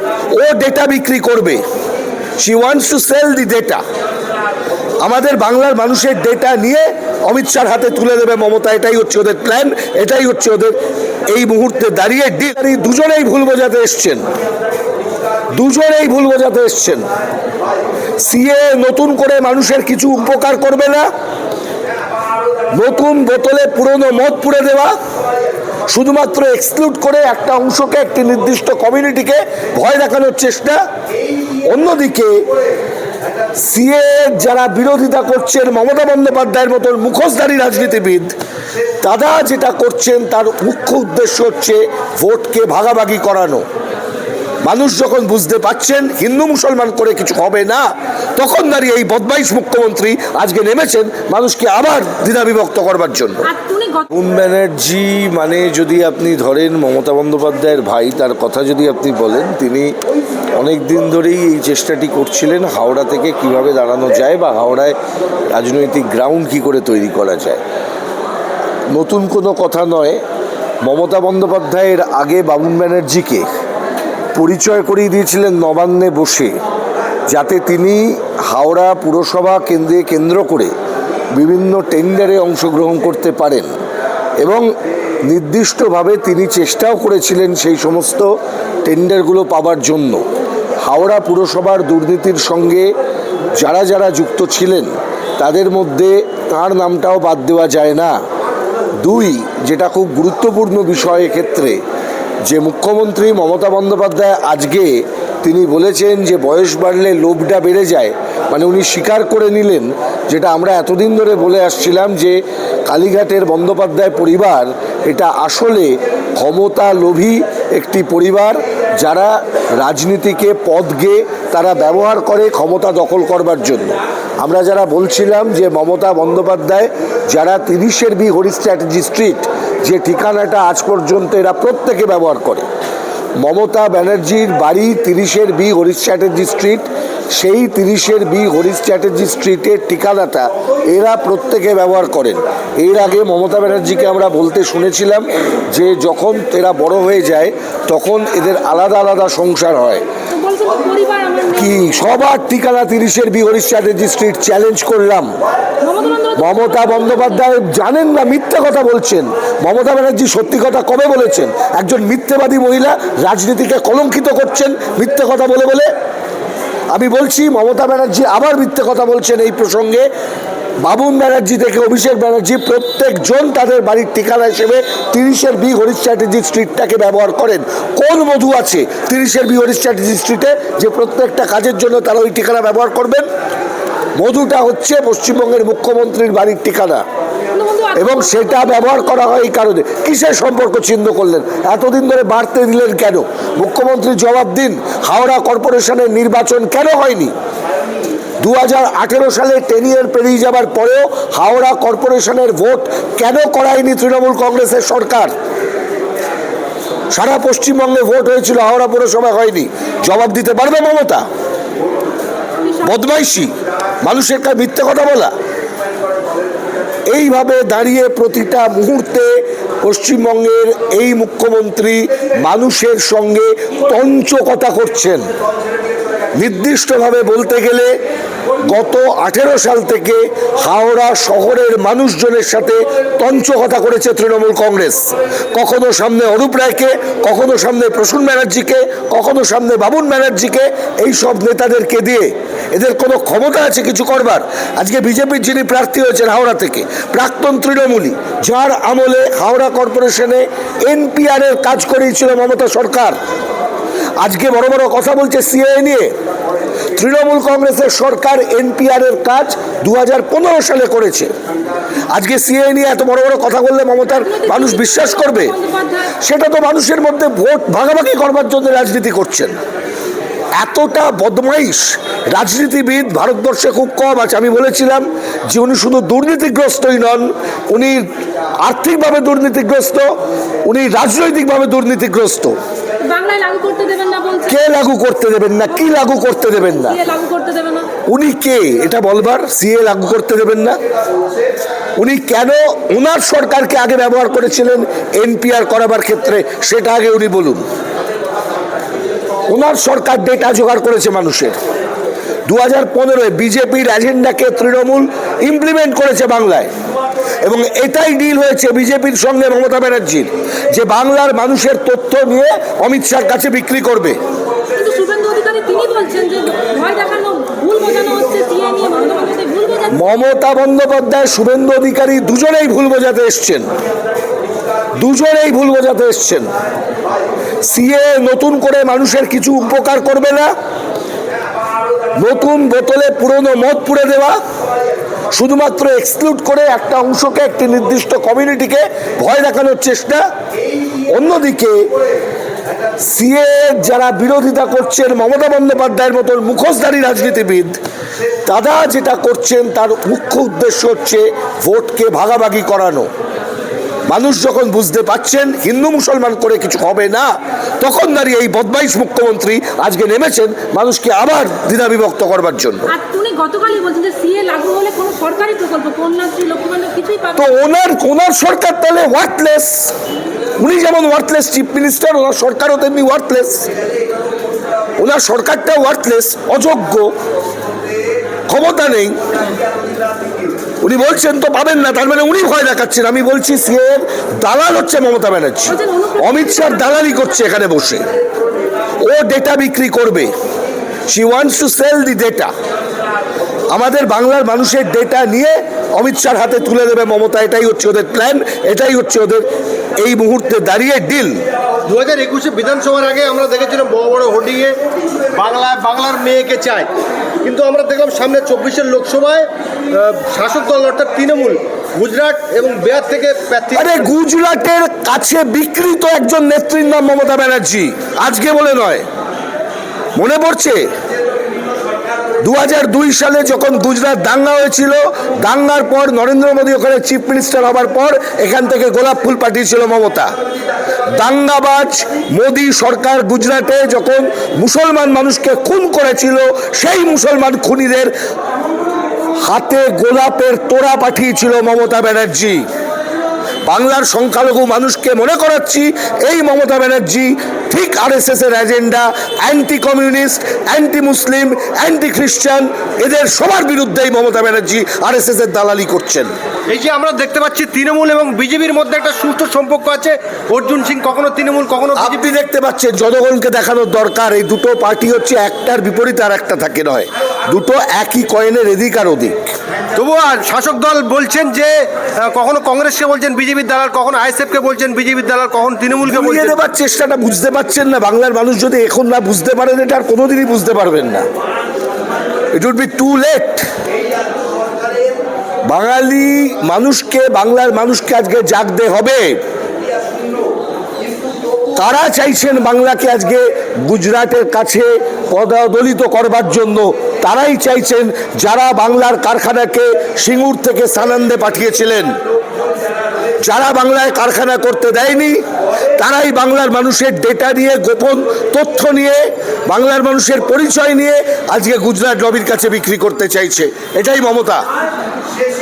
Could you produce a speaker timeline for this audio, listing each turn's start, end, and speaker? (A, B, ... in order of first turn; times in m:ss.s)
0:00.4-0:01.6 A
0:02.4-0:03.8 A
0:05.0-0:10.8 A
0:11.3-0:14.2 A
0:15.5-0:17.0 A
0:18.2-0:21.0 A
0:22.7-0:24.9 A
0:25.9-0:30.8 A
0:31.6-0:32.3 A
0:33.6-0:38.3 A
0:39.0-0:43.6 A
0:44.6-0:47.8 A
0:48.4-0:53.5 A
0:53.5-0:54.1 B
0:54.1-0:59.9 A
1:00.6-1:05.0 A
1:05.5-1:07.6 A
1:08.9-1:10.2 A
1:10.8-1:13.5 A
1:14.3-1:16.6 A
1:17.3-1:20.7 A
1:21.3-1:23.7 A
1:24.4-1:24.7 A
1:25.2-1:28.3 A
1:28.8-1:30.2 A
1:30.8-1:32.9 A
1:33.6-1:38.2 A
1:39.0-1:41.8 A
1:42.4-1:52.4 A
1:52.9-2:12.6 A
2:13.4-2:30.0 A
2:30.3-2:31.8 B
2:31.5-2:35.3 A
2:35.8-2:37.4 B
2:36.4-2:45.8 A
2:46.9-2:50.1 A
2:50.8-3:03.2 A
3:04.2-3:07.0 A
3:07.5-3:08.9 B
3:08.0-3:17.3 A
3:18.4-3:25.3 A
3:27.1-3:31.2 A
3:32.6-3:32.9 B
3:32.8-3:33.5 A
3:34.0-3:35.3 A
3:37.1-3:45.3 A
3:46.3-3:47.9 A
3:48.6-4:13.2 A
4:14.2-4:16.1 A
4:17.0-4:21.3 A
4:22.1-4:25.6 A
4:24.2-4:26.1 B
4:26.1-4:29.6 A
4:30.6-4:38.0 A
4:38.6-4:40.1 A
4:40.6-4:42.5 A
4:43.0-4:44.5 B
4:44.5-4:47.0 A
4:46.7-4:47.9 B
4:48.1-4:50.8 A
4:52.0-4:57.6 A
4:59.5-5:01.6 A
5:02.5-5:06.7 A
5:07.4-5:14.2 A
5:14.8-5:20.0 B
5:19.9-5:23.6 A
5:25.0-5:26.5 A
5:27.6-5:30.5 A
5:32.2-5:34.4 A
5:35.3-5:40.2 A
5:41.1-5:41.9 A
5:43.0-5:47.8 A
5:48.4-5:53.1 A
5:54.1-6:02.9 A
6:02.9-6:07.5 B
6:07.3-6:09.9 A
6:10.6-6:13.7 A
6:15.0-6:17.1 A
6:18.5-6:19.2 A
6:20.8-6:28.1 A
6:25.8-6:27.2 B
6:29.0-6:30.3 A
6:31.1-6:32.5 A
6:33.7-6:39.5 A
6:40.0-6:41.4 A
6:41.8-6:44.8 C
6:45.3-6:46.9 C
6:47.4-6:54.1 C
6:53.7-6:59.0 A
7:00.2-7:00.8 A
7:02.4-7:10.3 A
7:11.1-7:18.1 A
7:19.4-7:22.6 A
7:23.7-7:36.3 A
7:36.7-7:42.3 C
7:42.0-7:49.4 A
7:49.9-7:56.6 C
7:56.0-8:01.2 A
8:02.5-8:03.6 A
8:05.7-8:09.4 A
8:11.8-8:22.1 A
8:23.4-8:25.4 A
8:26.0-8:34.6 A